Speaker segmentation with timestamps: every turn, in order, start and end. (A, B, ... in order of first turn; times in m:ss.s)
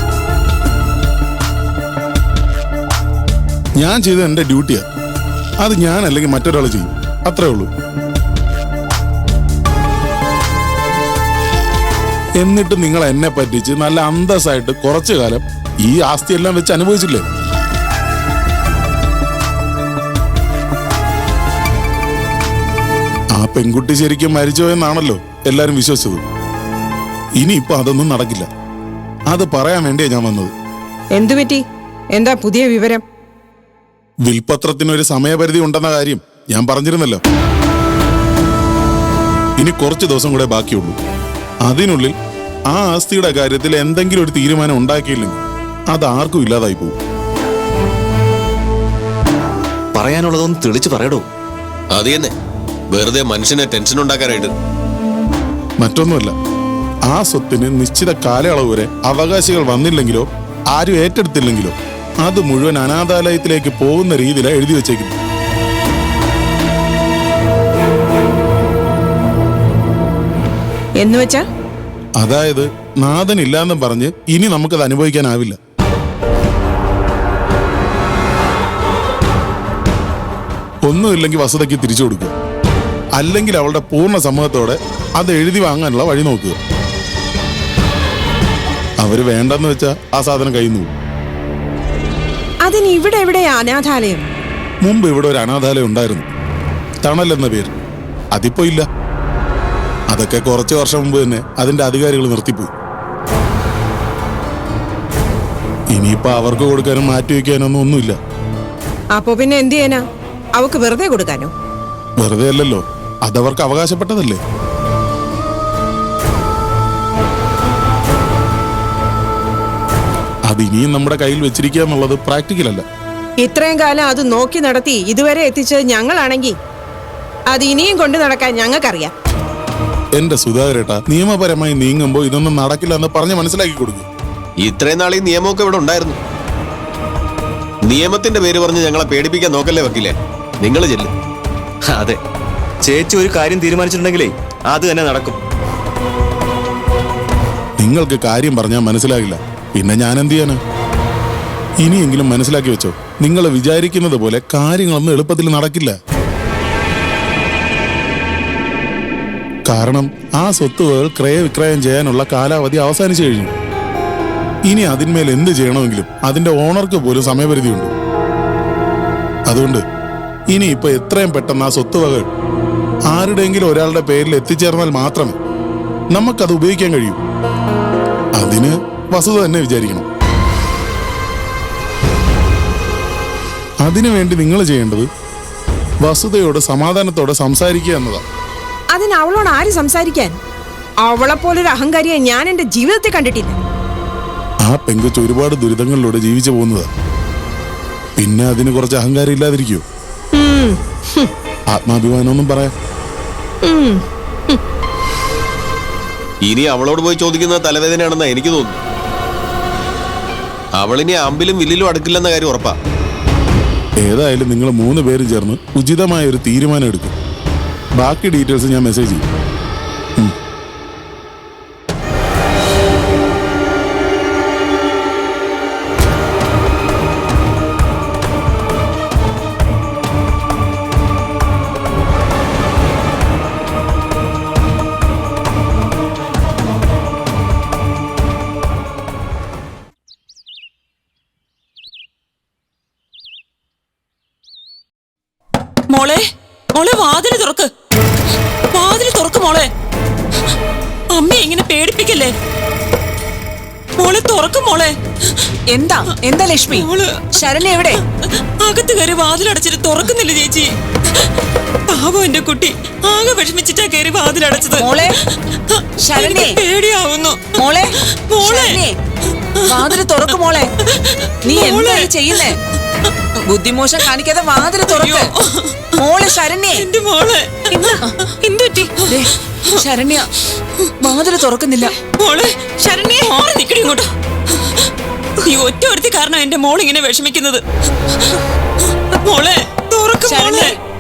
0:03.8-0:04.8 A
0:05.6-0:07.7 A
0:12.4-0:17.2 A
0:23.4-0:26.2 A
0:27.4-0:28.5 A
0:29.3-0:30.5 A
0:31.2-0:31.6 B
0:32.2-0:33.0 B
0:34.3-0:37.2 A
0:39.6-0:41.0 A
0:41.7-0:42.2 A
0:42.7-0:45.4 A
0:45.9-0:47.0 A
0:49.9-0:51.3 C
0:52.0-0:52.3 D
0:52.9-0:54.5 D
0:55.8-0:56.3 A
0:57.1-1:05.2 A
1:11.0-1:11.4 B
1:12.2-1:15.6 A
1:20.9-1:22.3 A
1:23.2-1:26.6 A
1:29.0-1:30.9 A
1:32.7-1:34.2 B
1:34.8-1:36.3 A
1:37.0-1:37.7 A
1:38.3-1:38.8 A
1:40.1-1:42.7 A
1:45.9-1:48.2 A
1:49.2-1:50.0 B
1:50.6-1:51.5 B
1:52.2-1:54.4 A
2:00.5-2:02.8 A
2:03.4-2:06.6 B
2:07.5-2:09.1 B
2:10.2-2:14.1 A
2:14.6-2:16.2 D
2:17.9-2:21.1 D
2:21.8-2:22.2 C
2:22.8-2:25.4 C
2:27.8-2:30.6 A
2:31.8-2:36.0 A
2:39.7-2:43.5 A
2:44.7-2:47.9 A
2:49.5-2:49.8 A
2:50.5-2:52.3 A
2:53.1-2:55.4 A
2:56.1-2:57.2 A
2:58.4-3:00.1 A
3:03.8-3:05.1 A
3:06.0-3:08.2 A
3:08.9-3:10.3 B
3:11.1-3:13.6 B
3:14.6-3:16.9 A
3:18.2-3:19.8 A
3:20.4-3:20.8 B
3:21.7-3:22.7 A
3:23.7-3:24.0 B
3:26.5-3:28.8 D
3:30.8-3:32.7 D
3:34.0-3:37.2 A
3:38.0-3:39.2 A
4:05.9-4:06.2 E
4:06.8-4:07.7 E
4:08.7-4:09.7 E
4:11.1-4:12.3 E
4:14.0-4:14.9 E
4:15.7-4:18.0 F
4:16.7-4:17.2 E
4:18.6-4:20.7 E
4:21.9-4:25.0 E
4:24.8-4:25.2 F
4:25.8-4:28.8 E
4:26.0-4:26.6 F
4:27.6-4:28.9 F
4:29.6-4:30.7 F
4:30.9-4:32.4 E
4:31.5-4:32.6 F
4:33.4-4:35.3 F
4:34.9-4:35.8 E
4:36.0-4:36.9 F
4:36.8-4:39.0 E
4:39.0-4:40.3 F
4:41.0-4:41.9 F
4:42.2-4:44.1 E
4:45.4-4:47.6 E
4:49.2-4:50.7 E
4:50.2-4:50.7 F